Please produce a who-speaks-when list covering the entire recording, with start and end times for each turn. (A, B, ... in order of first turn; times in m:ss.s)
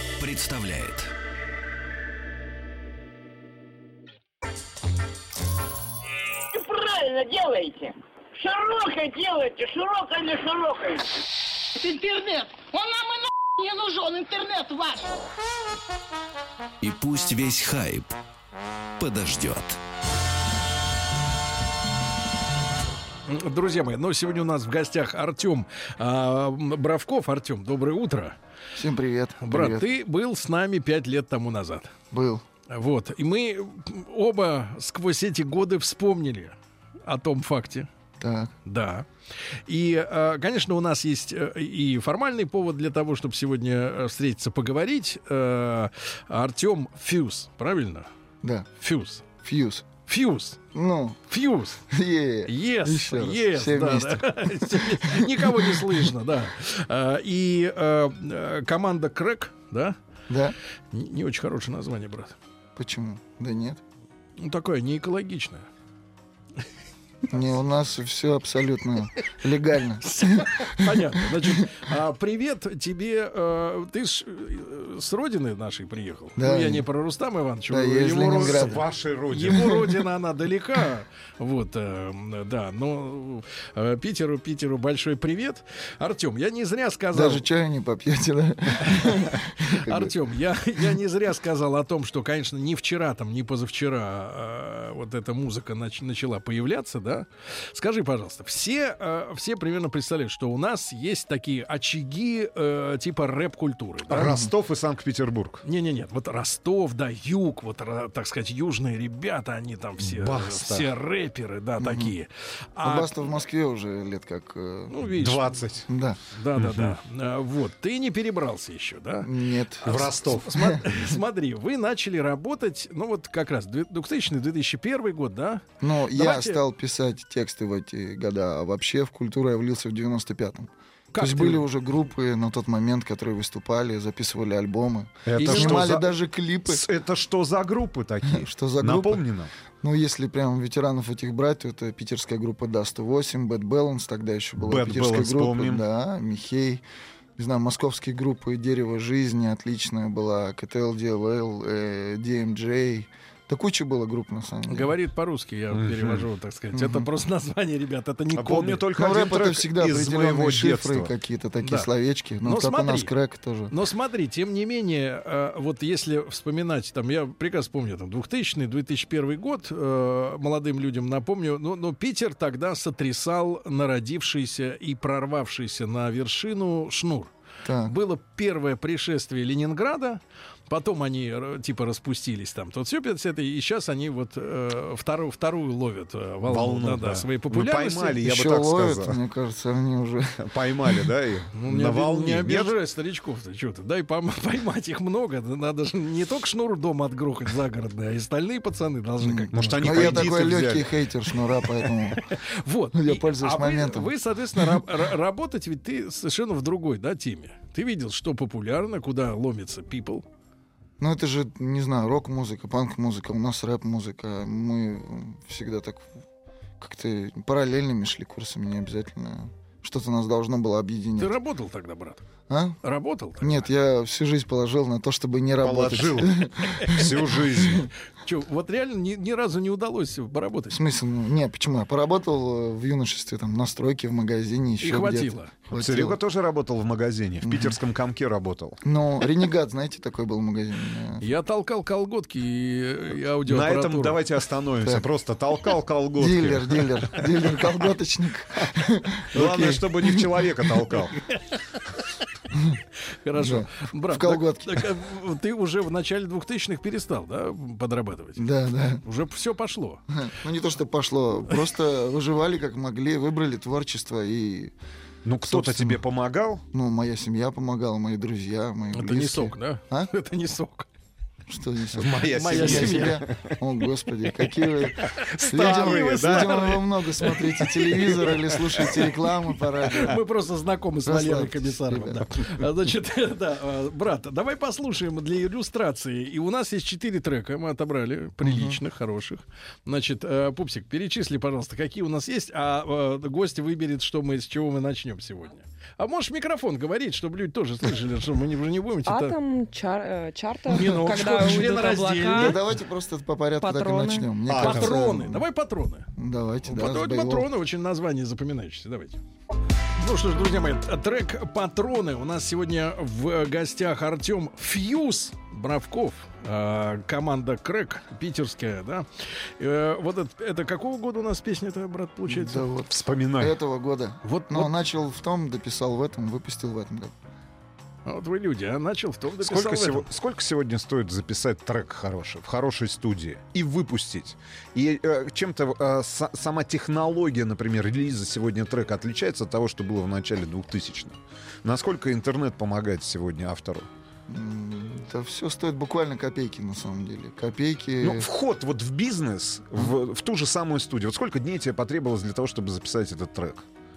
0:00.2-0:01.1 A
0:06.5-0:11.1 B
0:11.7-0:15.1 C
0:16.8-0:18.1 A
0:19.0-0:19.8 A
0:23.3-0:28.4 D
0:28.8-0:29.9 E
0:29.4-0:31.9 D
0:32.1-0:32.4 E
0:32.7-0:37.9 D
0:38.2-0:38.5 E
0:38.6-0:39.1 D
0:39.7-0:48.1 D
0:48.8-0:49.2 D
0:49.4-0:49.8 E
0:50.1-0:50.6 D
0:50.7-0:51.2 E
0:51.3-0:51.8 D
0:51.9-0:56.1 E
0:52.4-1:00.0 D
1:00.3-1:00.5 E
1:00.9-1:02.3 D
1:02.8-1:03.8 E
1:04.4-1:05.7 D
1:07.3-1:11.6 E
1:10.0-1:27.4 D
1:16.4-1:16.8 E
1:17.7-1:18.8 E
1:18.3-1:20.0 F
1:27.1-1:30.1 E
1:28.8-1:44.3 D
1:44.0-1:45.6 F
1:44.2-1:44.5 E
1:45.6-1:53.2 D
1:50.0-1:50.9 F
1:51.8-1:52.1 E
1:52.8-1:54.9 E
1:54.9-1:55.6 D
1:55.1-1:55.9 F
1:55.9-1:56.2 E
1:56.3-1:59.3 D
1:56.5-1:57.0 F
1:59.2-2:01.1 E
1:59.8-2:06.6 D
1:59.8-2:00.7 F
2:05.8-2:16.8 E
2:11.1-2:11.6 D
2:15.3-2:19.5 F
2:15.3-2:15.9 D
2:18.3-2:19.2 E
2:19.8-2:26.8 E
2:24.6-2:25.8 F
2:27.4-2:34.9 E
2:34.7-2:38.8 D
2:35.7-2:36.2 F
2:36.7-2:37.1 E
2:38.3-2:41.1 F
2:38.9-2:43.7 E
2:41.6-2:41.9 D
2:42.4-2:43.1 D
2:43.7-2:57.3 D
2:57.6-2:57.9 E
2:57.8-3:08.2 D
3:06.4-3:09.2 F
3:08.2-3:11.0 E
3:10.4-3:12.7 F
3:11.6-3:20.4 D
3:19.2-3:22.3 E
3:19.5-3:21.0 F
3:21.8-3:30.2 D
3:22.9-3:24.8 E
3:31.0-3:36.1 E
3:36.8-3:41.4 E
3:41.2-3:42.2 D
3:42.5-3:42.8 E
3:42.8-3:43.7 D
3:43.4-3:47.9 E
3:45.6-3:47.9 F
3:46.8-3:47.1 D
3:48.2-3:50.8 D
3:50.7-3:56.2 E
3:54.8-3:55.5 D
3:55.7-3:58.8 F
3:57.4-3:57.8 E
3:58.8-4:01.3 E
4:01.2-4:04.2 D
4:03.4-4:07.3 F
4:06.2-4:10.3 E
4:09.3-4:11.2 F
4:11.3-4:11.6 D
4:12.5-4:12.8 E
4:13.2-4:18.4 D
4:13.3-4:14.9 E
4:18.4-4:19.0 E
4:19.0-4:20.0 D
4:20.1-4:24.7 E
4:25.2-4:26.6 F
4:25.4-4:26.0 E
4:26.7-4:30.1 E
4:28.9-4:30.9 D
4:31.5-4:40.2 E
4:31.9-4:33.6 F
4:32.3-4:33.2 D
4:35.2-4:36.8 F
4:35.2-4:39.1 D
4:39.8-4:59.4 D
4:41.0-4:42.2 E
4:48.4-4:48.8 E
4:59.0-5:02.6 G
5:00.7-5:02.6 D
5:02.3-5:05.4 E
5:03.6-5:04.3 G
5:04.5-5:05.1 F
5:04.6-5:06.1 D
5:06.2-5:07.5 E
5:06.6-5:09.2 D
5:10.0-5:19.0 D
5:19.6-5:22.6 D
5:22.3-5:27.1 E
5:22.9-5:23.6 F
5:24.2-5:24.8 D
5:28.0-5:30.1 D
5:29.4-5:43.9 F
5:44.3-5:48.3 E
5:48.0-5:53.6 F